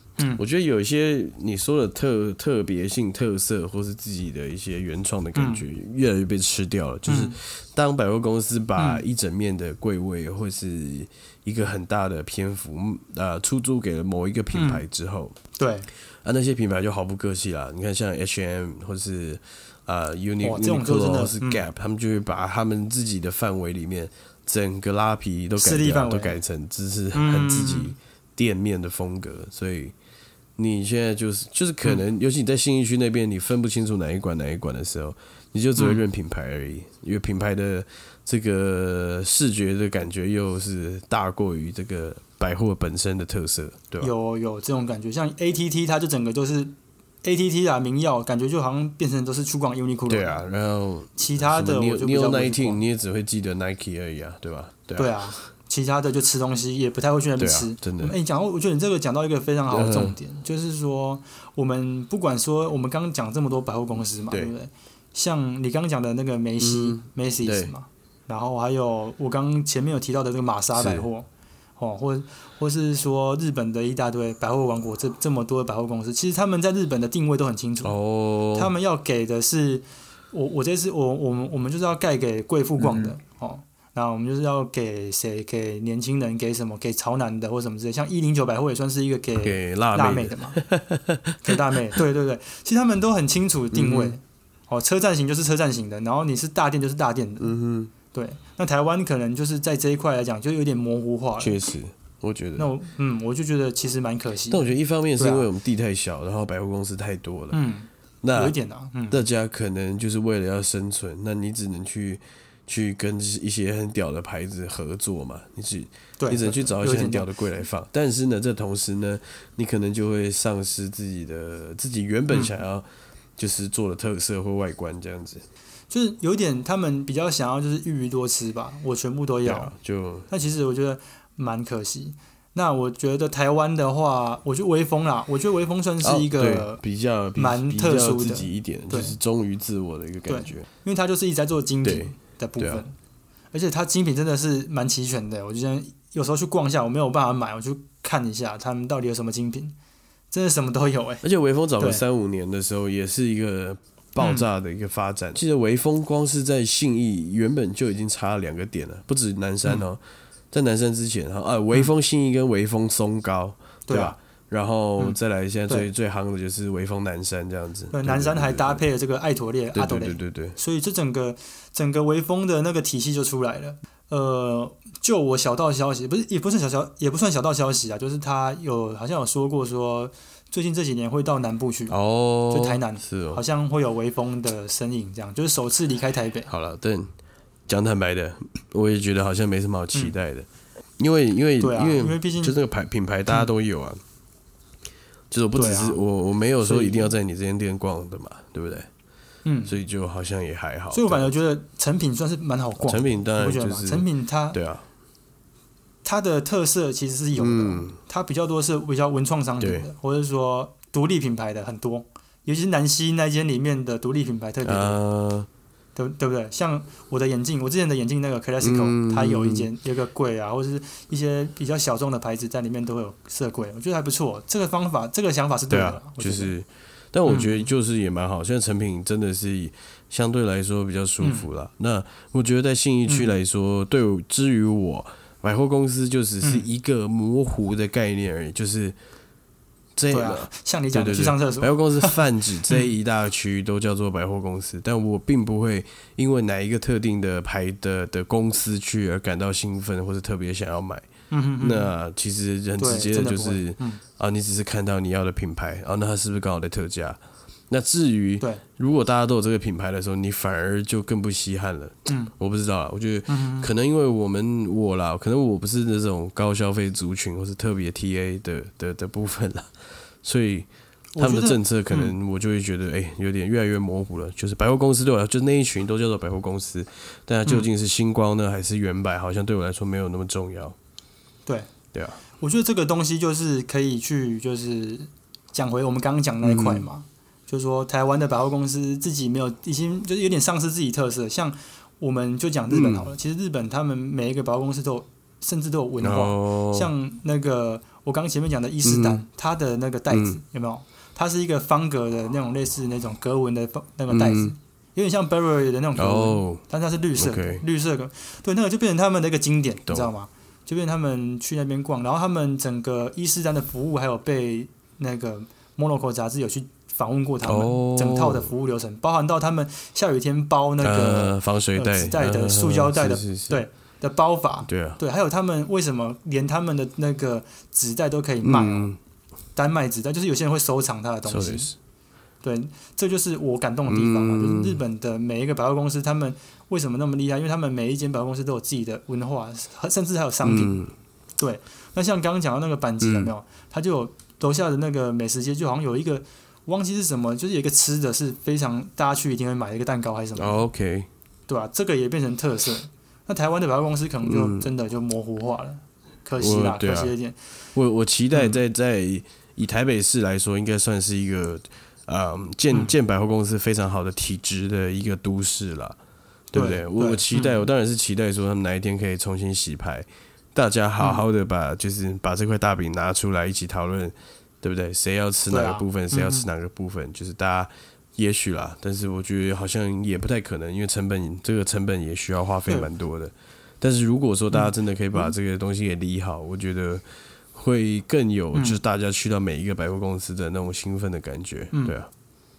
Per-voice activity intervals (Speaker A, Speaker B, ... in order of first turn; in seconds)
Speaker A: 0.3-15.3, 16.2-29.9, 30.6-44.1, 50.1-55.4, 57.4-58.2, 59.7-60.1, 66.6-67.7, 70.7-71.1, 77.8-78.7, 82.8-83.1, 89.4-91.6, 93.7-94.2, 97.4-97.9, 101.4-102.7, 104.5-107.6, 108.2-108.5, 109.1-122.8, 123.4-125.4, 129.4-130.3, 136.0-140.7, 141.8-142.8, 151.2-160.0, 160.5-168.8, 169.7-170.6, 181.9-183.4, 186.5-187.1, 187.7-190.5, 191.0-194.0, 195.3-198.9, 199.6-201.3, 202.8-204.8, 207.4-208.0, 209.6-209.8, 214.6-215.5, 218.6-219.7, 225.7-238.9, 239.9-251.1, 251.6-257.2, 257.7-269.7, 270.2-270.7, 271.2-280.8, 281.9-282.2, 286.4-286.9, 292.7-293.1, 296.0-296.9, 298.8-299.2, 300.1-300.4, 304.1-304.5, 306.0-306.6, 307.2-307.6, 317.4-318.5, 320.8-323.6, 324.6-325.0, 328.4-329.0, 331.2-331.8, 333.9-334.8, 340.4-340.9, 343.0-343.3, 350.4-351.1, 354.2-354.7, 356.4-357.1, 357.7-366.0, 366.5-387.0, 387.5-392.1
Speaker B: 5.3-5.6, 7.1-7.4, 8.8-9.0, 14.5-14.8, 15.5-15.9, 20.4-21.6, 25.6-26.4, 27.1-27.9, 35.8-36.0, 44.0-50.4, 51.2-52.8, 55.0-78.0, 78.5-90.6, 91.4-97.5, 98.1-101.6, 102.6-105.5, 107.5-109.2, 116.2-117.3, 125.9-129.7, 130.3-136.8, 137.3-139.2, 140.3-142.9, 143.5-149.7, 150.3-151.2, 154.2-154.4, 163.9-164.2, 167.9-181.9, 182.5-186.5, 191.6-192.5, 195.6-196.0, 196.6-197.1, 199.4-199.8, 200.9-204.6, 206.0-215.0, 215.9-226.5, 227.3-227.7, 231.2-231.5, 233.1-233.3, 236.4-236.7, 240.1-242.9, 251.3-251.9, 252.8-254.0, 262.1-262.3, 263.3-263.7, 271.1-272.1, 281.4-281.7, 282.4-328.9, 329.6-331.7, 332.4-340.8, 341.4-350.6, 351.5-357.4, 358.3-358.6, 366.5-367.6, 375.5-376.5, 384.5-385.3, 388.5-388.8